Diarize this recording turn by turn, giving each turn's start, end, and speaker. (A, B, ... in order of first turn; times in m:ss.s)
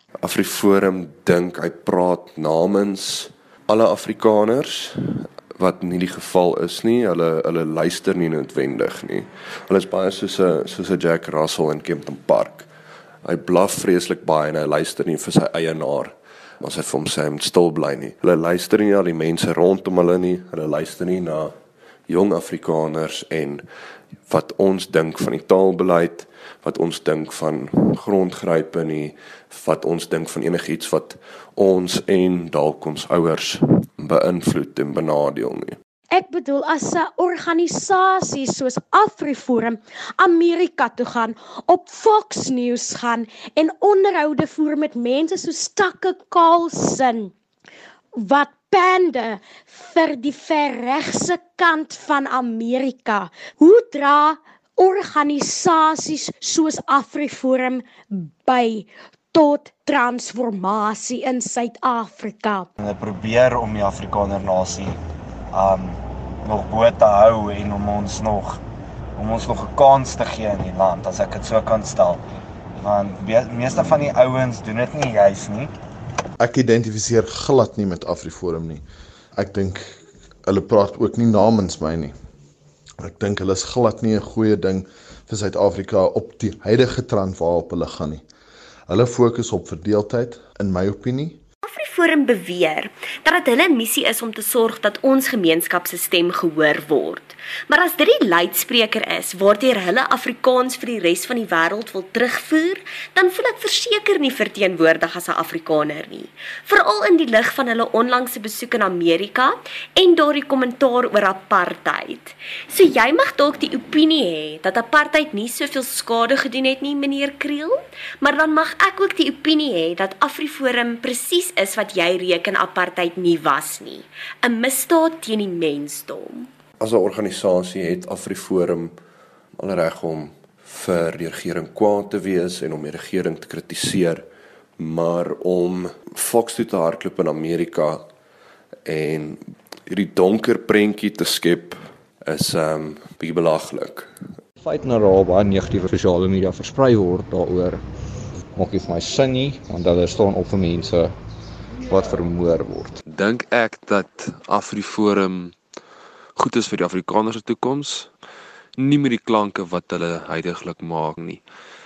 0:00.2-0:12.7 A
0:13.2-0:21.5 A
0:22.1-0:23.7 A
0:24.3-0:35.8 A
0:36.1-0:47.3 B
0:48.2-1:02.7 B
1:02.8-1:04.9 C
1:05.6-1:05.9 C
1:06.5-1:08.6 C
1:09.2-1:12.2 C
1:12.8-1:15.6 C
1:16.4-1:18.8 D
1:19.4-1:22.1 D
1:23.0-1:28.2 D
1:28.9-1:31.4 D
1:31.7-2:06.5 E
2:06.8-2:08.9 A
2:09.6-2:14.2 A
2:14.8-2:18.0 A
2:18.9-2:24.1 A
2:24.6-2:27.8 F
2:28.5-2:31.1 F
2:31.9-2:33.0 F
2:33.1-2:35.6 G
2:36.4-2:38.1 G
2:38.8-2:41.4 G